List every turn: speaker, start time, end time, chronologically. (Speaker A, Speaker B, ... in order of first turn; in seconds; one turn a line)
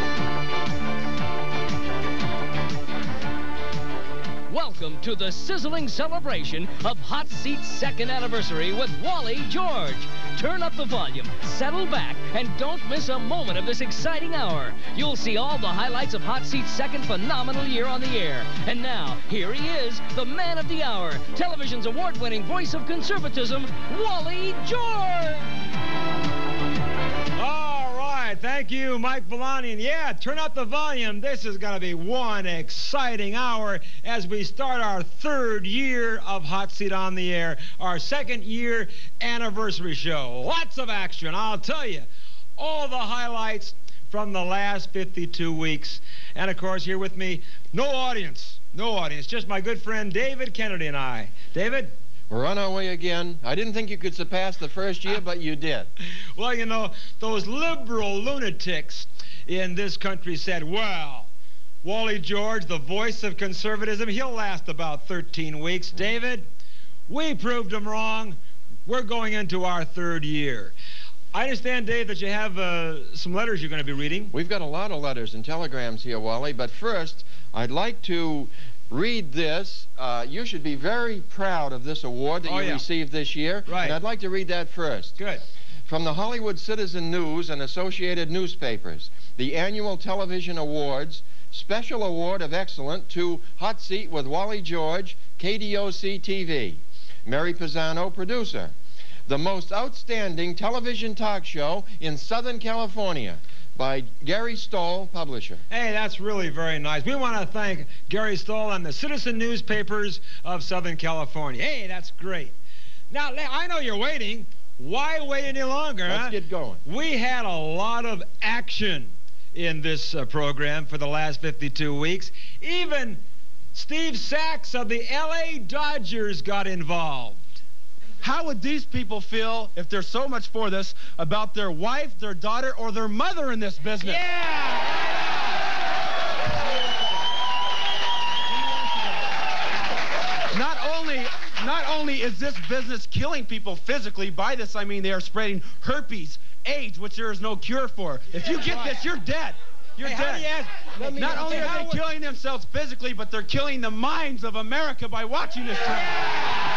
Speaker A: 4.5-25.4
Speaker B: 27.4-51.9
Speaker C: 52.3-55.9
Speaker B: 56.4-61.3
Speaker B: 61.8-66.5
Speaker B: 67.1-70.7
Speaker B: 71.3-74.3
Speaker C: 74.3-85.2
Speaker B: 82.5-82.8
Speaker B: 83.7-84.0
Speaker B: 85.2-85.4
Speaker C: 85.9-98.7
Speaker C: 99.3-105.6
Speaker B: 105.7-112.5
Speaker B: 113.1-123.2
Speaker C: 116.1-116.8
Speaker B: 123.7-127.6
Speaker D: 128.2-134.2
Speaker B: 134.0-135.0
Speaker D: 140.5-156.2
Speaker B: 148.4-149.0
Speaker B: 150.0-152.0